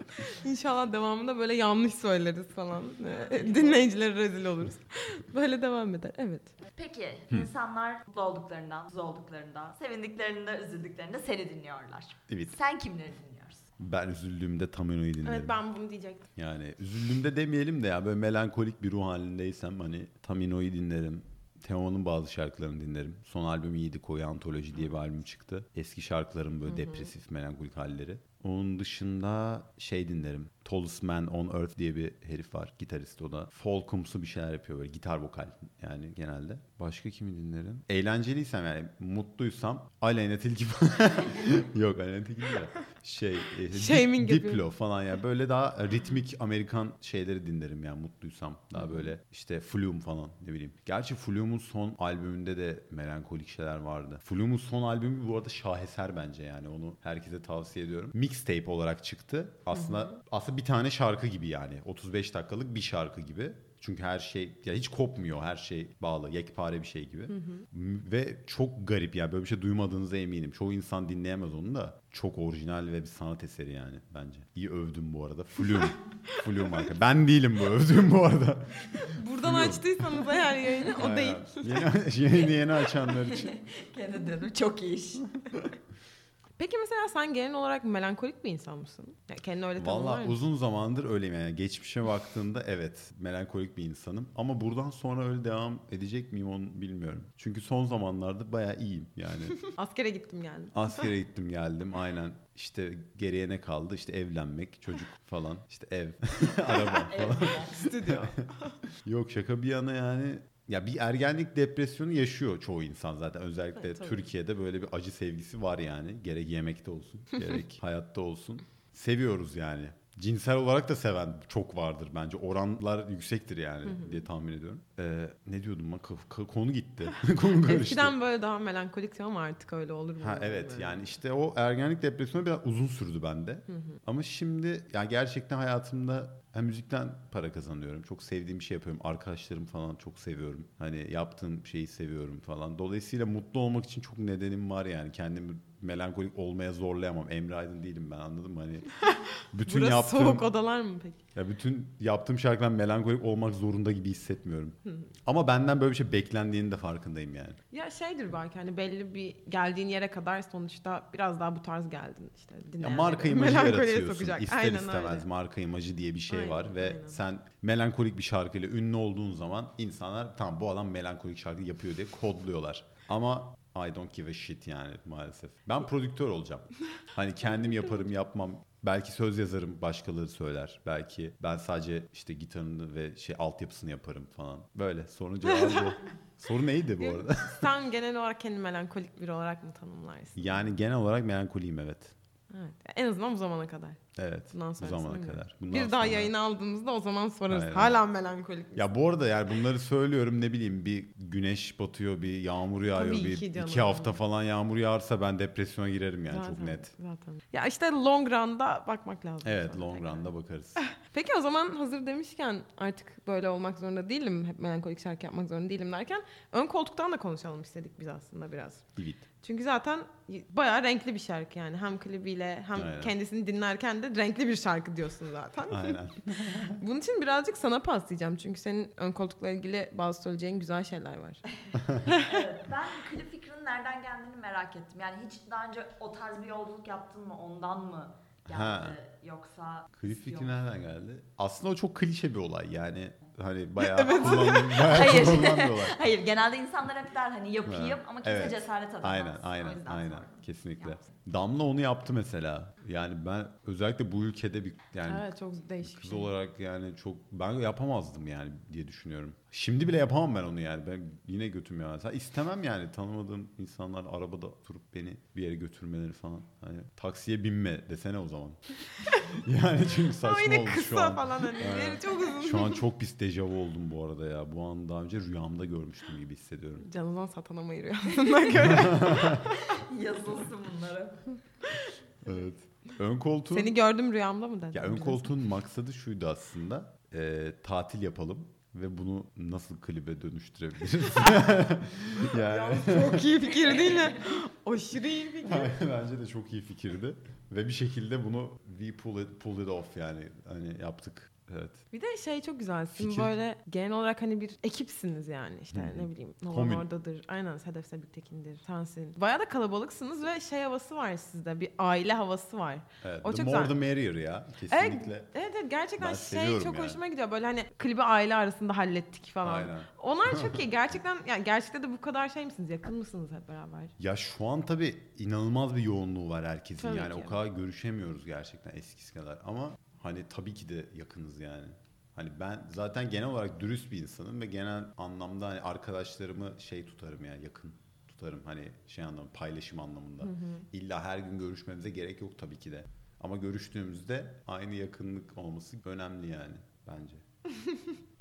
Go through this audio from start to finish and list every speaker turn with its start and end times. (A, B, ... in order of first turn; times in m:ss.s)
0:00.2-0:06.5 A
0:06.7-0:13.6 B
0:12.3-0:12.5 C
0:13.8-0:15.6 C
0:15.2-0:16.3 A
0:16.4-1:20.3 C
0:26.7-0:27.1 A
0:43.7-0:44.6 A
0:59.7-1:00.1 A
1:07.3-1:07.6 A
1:15.8-1:16.9 A
1:18.9-1:21.8 A
1:20.9-1:23.5 C
1:23.1-1:25.3 B
1:26.6-1:30.4 A
1:29.8-1:39.6 C
1:39.6-1:41.1 A
1:40.7-2:08.2 C
1:46.9-1:48.0 B
1:47.8-1:48.8 A
1:53.8-1:54.2 A
2:03.8-2:04.2 A
2:07.6-2:11.0 A
2:10.2-2:28.9 C
2:13.7-2:14.0 A
2:29.0-2:31.2 A
2:29.5-2:30.4 C
2:31.3-2:37.6 C
2:37.7-2:45.2 A
2:42.8-3:07.7 C
2:46.3-2:47.2 A
2:57.6-2:57.9 A
3:05.4-3:06.0 A
3:07.0-3:10.7 A
3:10.4-3:12.2 C
3:12.5-3:14.0 A
3:14.2-3:16.3 C
3:14.5-3:18.9 A
3:17.5-3:18.0 C
3:18.7-3:26.9 C
3:22.9-3:24.2 A
3:26.3-3:30.3 A
3:29.4-3:30.8 C
3:30.8-3:38.8 A
3:39.0-3:39.3 C
3:39.4-3:46.0 A
3:42.8-3:43.1 C
3:45.7-3:46.8 C
3:46.8-3:51.4 A
3:52.1-4:00.6 B
3:52.1-3:52.4 A
3:58.5-3:59.0 C
3:59.9-4:06.0 C
4:03.8-4:05.0 A
4:04.1-4:11.0 B
4:07.6-4:36.9 C
4:15.0-4:16.3 A
4:30.2-4:32.8 A
4:36.8-4:39.6 A
4:38.5-4:39.5 C
4:39.6-4:41.2 B
4:42.2-4:43.7 C
4:43.5-4:45.3 A
4:44.7-4:53.3 C
4:52.2-4:55.7 A
4:55.4-5:01.8 C
5:01.9-5:13.7 A
5:03.0-5:03.3 C
5:05.7-5:06.9 C
5:13.0-5:15.3 C
5:14.7-5:23.9 A
5:16.0-5:17.0 C
5:19.4-5:20.7 C
5:24.0-5:47.2 C
5:26.8-5:27.4 A
5:40.2-5:40.6 A